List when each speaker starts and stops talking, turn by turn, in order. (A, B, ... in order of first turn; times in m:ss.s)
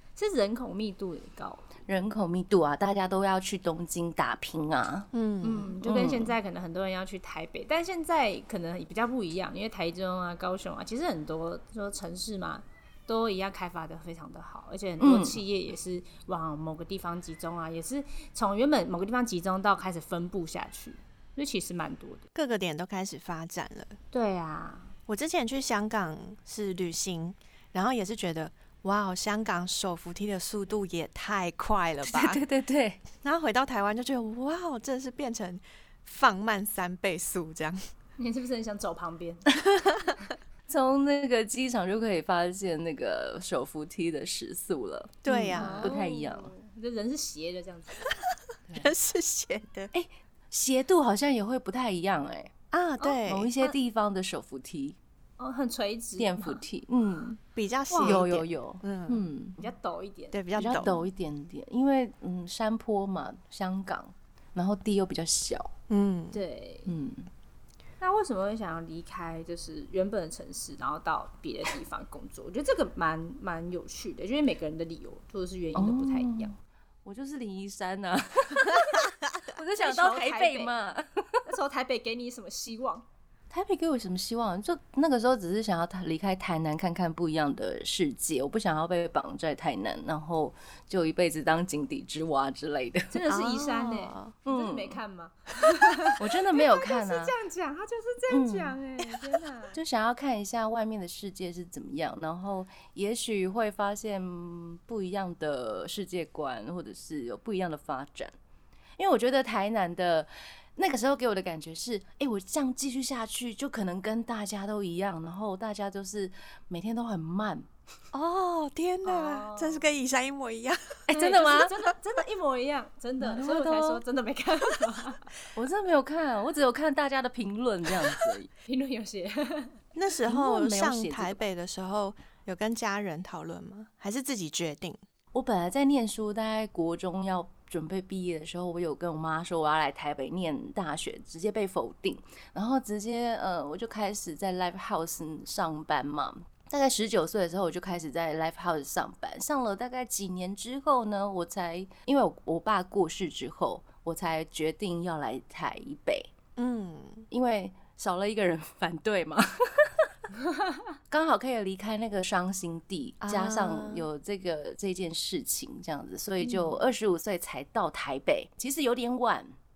0:00.2-0:01.6 A
0:01.9-0:05.1 B
0:05.1-0:05.7 C
0:05.4-0:22.2 A
0:05.8-0:06.4 B
0:15.0-0:15.4 B
0:22.3-0:23.9 C
0:24.1-0:24.9 A
0:25.1-0:32.4 C
0:32.0-0:33.0 B
0:33.2-0:37.8 C
0:38.2-0:39.5 A
0:40.7-0:46.5 B
0:45.2-0:45.9 C
0:45.5-0:48.1 A
0:48.7-0:48.9 B
0:48.7-0:49.9 C
0:49.9-0:52.5 B
0:52.7-0:53.5 C
0:53.0-0:53.7 A
0:53.2-0:55.0 B
0:55.4-0:56.6 A
0:56.2-0:57.4 B
0:57.5-0:59.2 C
0:57.9-0:58.2 A
0:58.0-0:59.6 B
0:59.6-1:01.1 A
1:00.3-1:00.9 C
1:00.6-1:05.7 B
1:05.9-1:06.4 C
1:06.3-1:06.9 A
1:06.8-1:07.3 B
1:08.0-1:16.5 A
1:15.7-1:21.4 B
1:19.8-1:20.7 A
1:21.4-1:23.0 A
1:23.5-1:33.2 B
1:33.1-1:39.8 A
1:33.3-1:34.4 C
1:34.4-1:35.0 B
1:36.2-1:37.3 B
1:38.3-1:38.8 B
1:39.7-1:48.3 B
1:49.0-1:57.7 B
1:58.1-2:01.0 C
1:59.0-1:59.8 A
2:01.1-2:01.7 B
2:01.1-2:05.3 A
2:03.2-2:04.0 B
2:05.5-2:08.5 B
2:08.6-2:09.8 A
2:09.9-2:15.0 C
2:10.2-2:11.4 B
2:15.3-2:36.3 B
2:36.6-2:37.3 C
2:37.3-2:40.1 B
2:41.1-2:49.5 B
2:43.2-2:44.1 C
2:46.4-2:46.8 C